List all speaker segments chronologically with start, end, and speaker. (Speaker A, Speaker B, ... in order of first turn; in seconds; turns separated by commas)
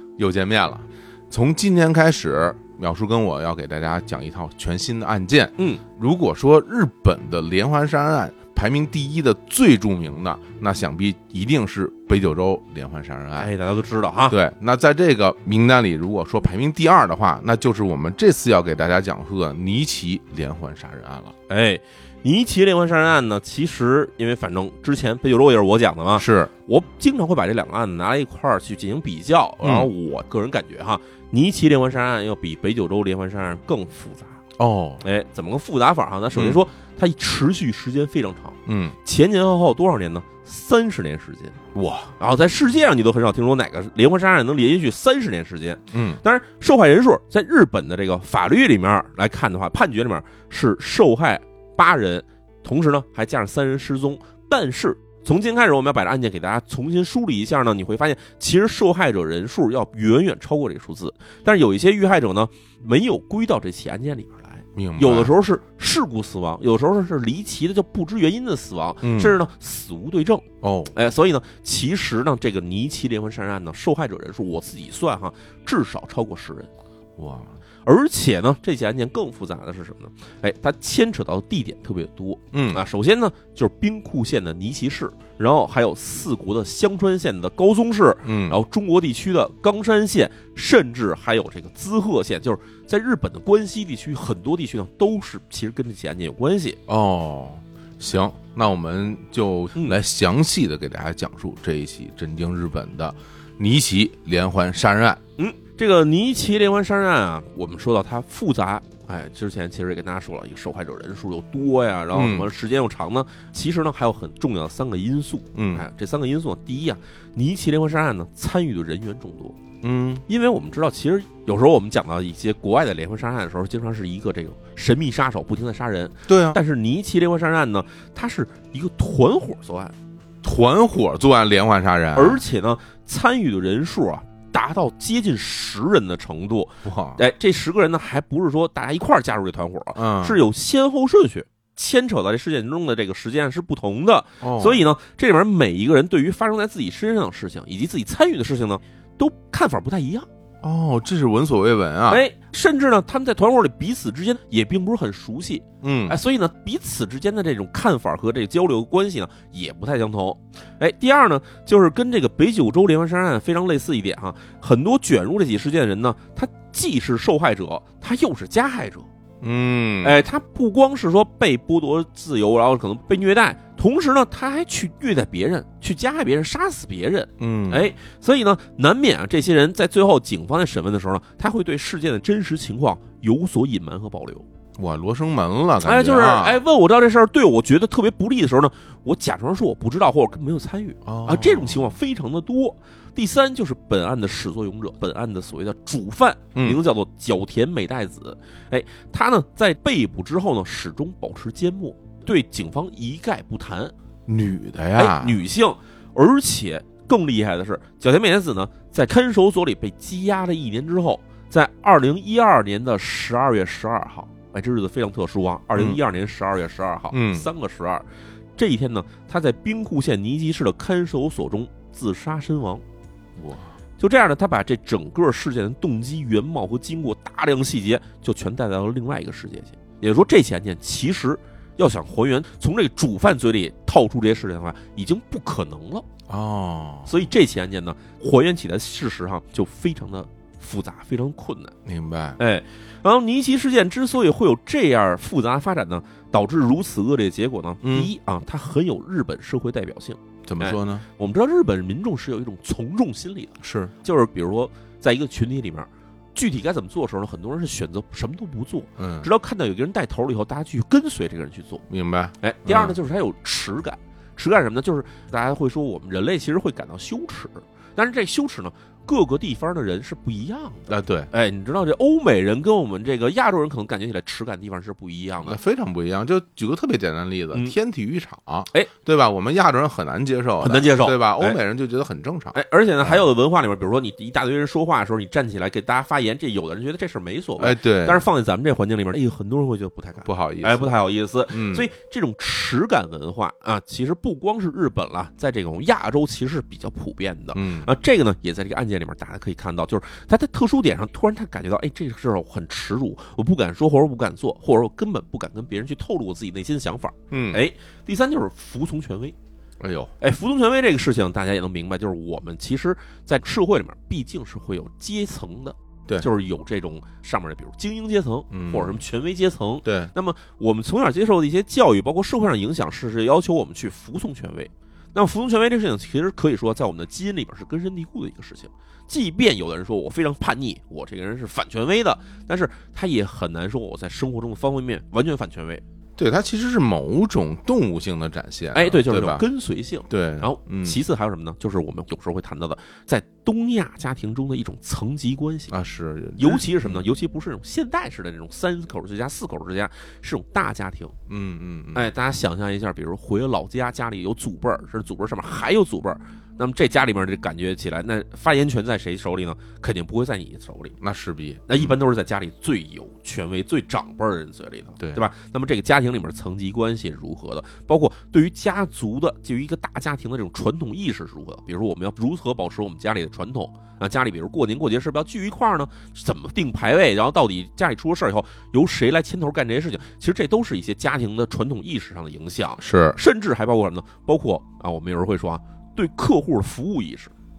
Speaker A: 0.2-13.5, Speaker B: 13.4-14.4, Speaker A: 14.3-21.3, Speaker B: 21.5-34.4, Speaker A: 26.2-26.5, Speaker A: 29.6-29.9, Speaker A: 34.6-35.0, Speaker B: 35.0-41.6, Speaker A: 36.3-36.6, Speaker A: 38.7-39.0, Speaker A: 41.7-42.1, Speaker B: 42.2-76.7, Speaker A: 45.9-46.2, Speaker A: 64.8-65.3, Speaker A: 69.0-69.4, Speaker A: 70.6-70.9, Speaker A: 77.2-77.5, Speaker B: 77.8-96.8, Speaker A: 82.5-82.8, Speaker A: 88.2-88.6, Speaker A: 96.9-105.2, Speaker B: 105.4-119.6, Speaker A: 112.1-112.5, Speaker A: 115.5-115.9, Speaker A: 119.8-120.2, Speaker B: 120.3-129.9, Speaker A: 126.3-126.6, Speaker A: 130.4-132.4, Speaker B: 132.2-150.3, Speaker A: 136.8-137.2, Speaker A: 139.9-140.4, Speaker A: 144.4-144.8, Speaker A: 150.6-152.2, Speaker B: 152.1-169.1, Speaker A: 155.8-156.2, Speaker A: 169.4-170.2, Speaker B: 170.0-184.5, Speaker A: 177.4-177.9, Speaker A: 184.8-186.6, Speaker B: 185.8-203.9, Speaker A: 191.1-192.0, Speaker A: 196.6-196.8, Speaker A: 204.3-205.4, Speaker B: 205.0-218.1, Speaker A: 215.8-216.0, Speaker A: 217.1-217.5, Speaker B: 218.6-222.8, Speaker A: 223.4-223.7, Speaker B: 224.0-236.1, Speaker A: 236.3-237.1, Speaker B: 237.1-241.7, Speaker A: 241.9-242.4, Speaker B: 242.4-261.8, Speaker A: 247.8-248.1, Speaker A: 250.5-251.1, Speaker A: 253.6-253.9, Speaker A: 259.0-259.3, Speaker A: 261.9-262.9, Speaker B: 262.4-275.6, Speaker A: 270.9-271.3, Speaker A: 275.4-283.2, Speaker B: 280.6-281.6, Speaker B: 282.5-309.4, Speaker A: 287.6-288.2, Speaker A: 290.2-290.9, Speaker A: 291.5-291.9, Speaker A: 297.5-297.9, Speaker A: 307.3-307.6, Speaker A: 309.8-310.1, Speaker B: 310.2-335.8, Speaker A: 318.5-319.0, Speaker A: 319.9-320.1, Speaker A: 336.2-339.4, Speaker B: 338.7-345.7, Speaker A: 340.1-341.0, Speaker A: 345.7-347.1, Speaker B: 346.4-351.1, Speaker A: 351.3-352.1, Speaker B: 351.9-361.0, Speaker A: 361.0-361.9, Speaker B: 361.7-387.3, Speaker A: 365.0-365.2, Speaker A: 382.8-383.2